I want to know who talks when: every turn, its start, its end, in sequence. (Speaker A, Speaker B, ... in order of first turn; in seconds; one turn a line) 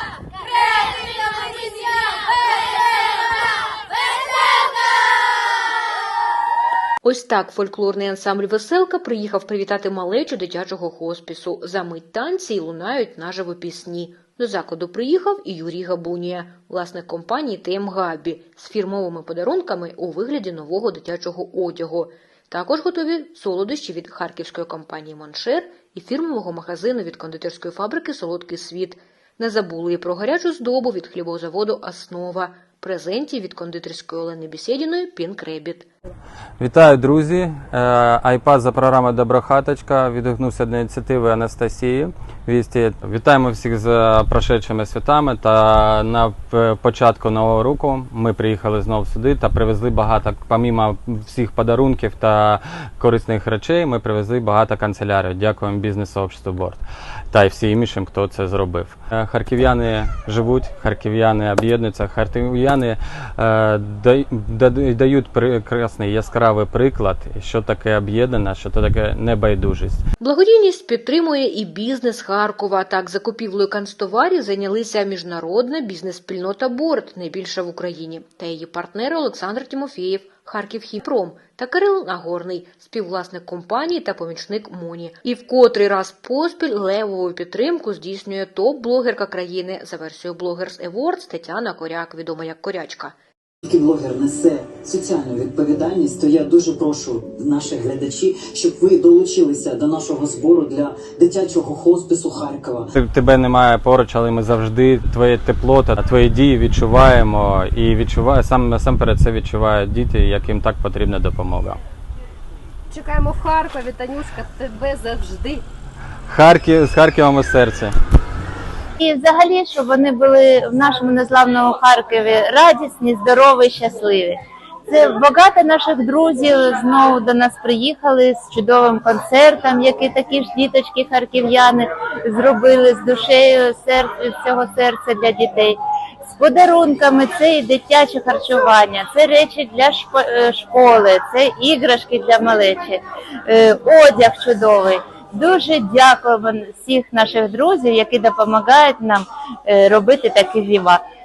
Speaker A: 0.5-3.1
Speaker A: 4.4-4.8
Speaker B: 7.0-35.9
Speaker C: 36.6-56.8
Speaker C: 57.3-70.0
Speaker B: 70.2-93.1
Speaker D: 93.6-102.9
Speaker C: 103.0-111.8
Speaker A: 112.9-115.6
Speaker C: 116.3-117.9
Speaker E: 119.0-124.3
Speaker E: 124.9-135.8
Speaker E: 136.4-151.0